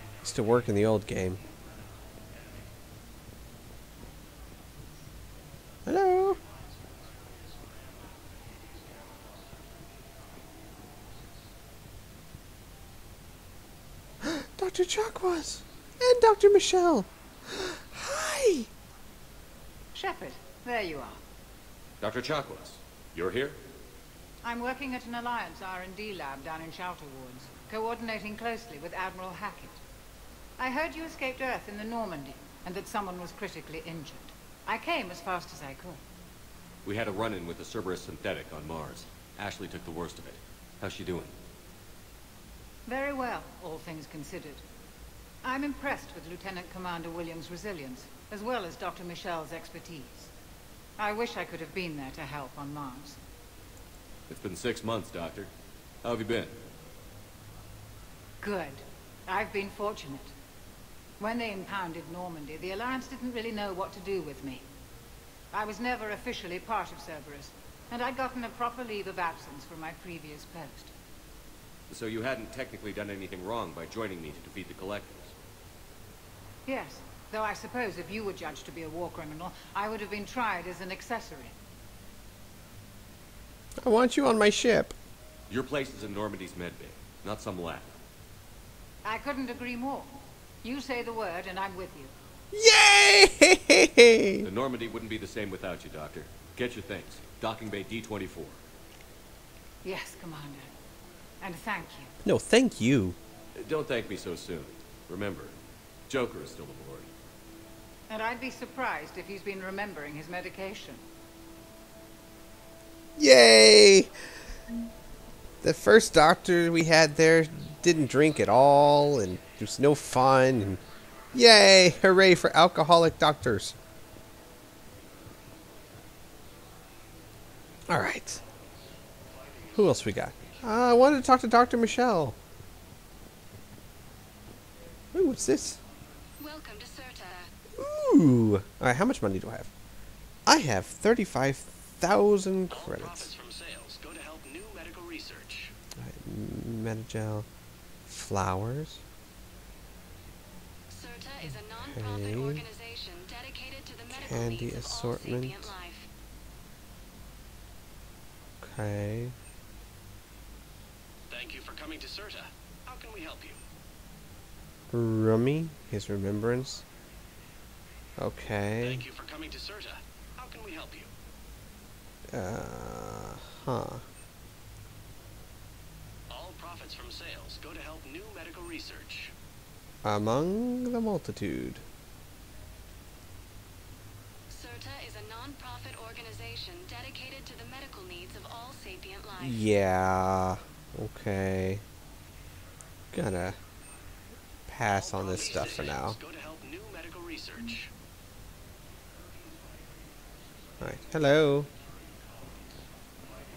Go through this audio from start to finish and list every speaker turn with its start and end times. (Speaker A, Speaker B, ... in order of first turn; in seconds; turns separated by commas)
Speaker A: 0.2-1.4, Speaker A: 5.8-6.4, Speaker A: 14.2-18.7, Speaker B: 19.9-21.2, Speaker C: 22.0-23.6, Speaker B: 24.4-29.8, Speaker B: 30.6-36.0, Speaker C: 36.8-41.3, Speaker B: 42.9-44.6, Speaker B: 45.4-50.3, Speaker B: 51.0-53.2, Speaker C: 54.3-55.5, Speaker C: 56.0-56.5, Speaker B: 58.4-60.3, Speaker B: 61.2-64.6, Speaker B: 65.5-70.9, Speaker C: 71.9-75.3, Speaker B: 76.7-81.5, Speaker A: 83.8-84.9, Speaker C: 85.5-88.0, Speaker B: 89.0-92.1, Speaker A: 92.5-94.5, Speaker C: 94.4-98.6, Speaker B: 99.8-100.7, Speaker B: 101.4-102.1, Speaker A: 102.2-103.2, Speaker C: 103.5-105.5, Speaker C: 106.1-107.1, Speaker B: 108.1-111.0, Speaker A: 113.2-114.1, Speaker A: 115.6-120.8, Speaker A: 121.3-123.7, Speaker A: 127.9-128.4, Speaker A: 129.7-132.3, Speaker A: 135.1-135.8, Speaker D: 136.4-137.5, Speaker A: 137.8-139.7, Speaker A: 140.4-143.3, Speaker E: 142.7-145.7, Speaker A: 146.0-147.5, Speaker A: 148.1-149.0, Speaker D: 150.9-156.1, Speaker A: 151.8-152.6, Speaker A: 154.1-155.7, Speaker A: 158.6-159.3, Speaker E: 161.3-163.6, Speaker A: 164.9-166.8, Speaker A: 168.2-169.0, Speaker E: 168.8-171.1, Speaker A: 172.3-174.0, Speaker E: 176.3-179.3, Speaker A: 180.0-181.8, Speaker D: 184.5-189.6, Speaker A: 189.4-191.8, Speaker A: 193.1-193.6, Speaker A: 194.7-196.2, Speaker E: 194.9-197.9, Speaker A: 200.8-201.7